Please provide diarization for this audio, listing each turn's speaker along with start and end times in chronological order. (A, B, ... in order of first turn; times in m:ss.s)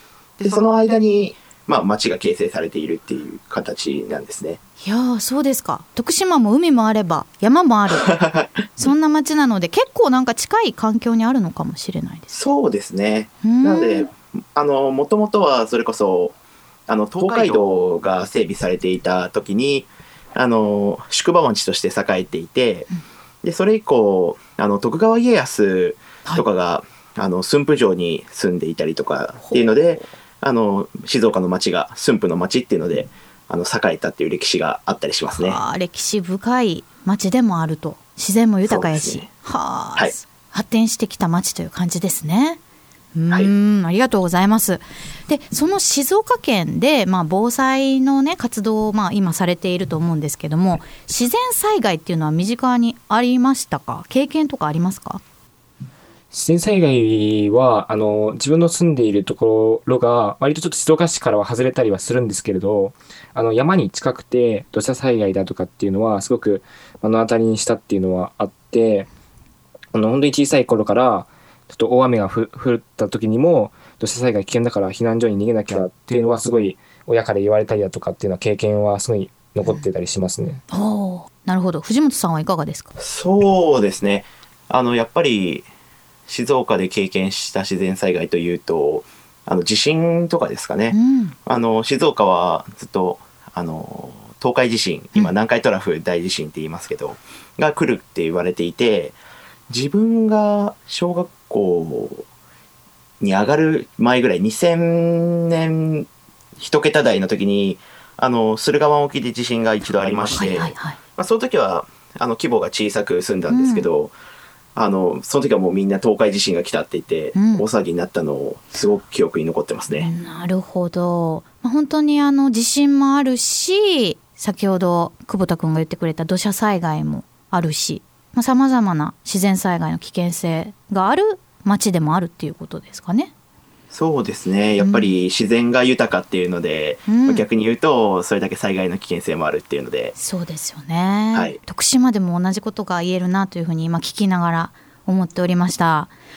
0:00.4-0:04.6 A
0:04.8-0:08.1 B
0:08.0-0:08.7 A
0:08.8-0:12.4 B
0:12.3-0:16.3 A
0:13.4-0:14.1 B
0:16.9-0:22.9 A
0:23.4-0:35.6 A
0:29.4-0:29.8 B
0:35.4-0:42.6 B
0:38.6-0:39.3 A
0:43.1-0:55.2 B
0:56.3-1:09.1 C
1:09.9-1:20.6 C
1:20.7-1:22.9 B
1:23.0-1:25.7 A
1:26.3-1:39.2 A
1:30.9-1:31.3 B
1:39.7-1:42.2 A
1:43.2-1:46.1 A
1:46.6-1:54.1 A
1:50.3-1:51.0 B
1:53.5-1:53.9 B
1:54.8-2:00.1 A
1:57.3-1:57.6 B
2:00.0-2:13.3 B
2:13.9-2:20.1 A
2:14.8-2:15.1 B
2:17.1-2:17.4 B
2:20.2-2:26.1 B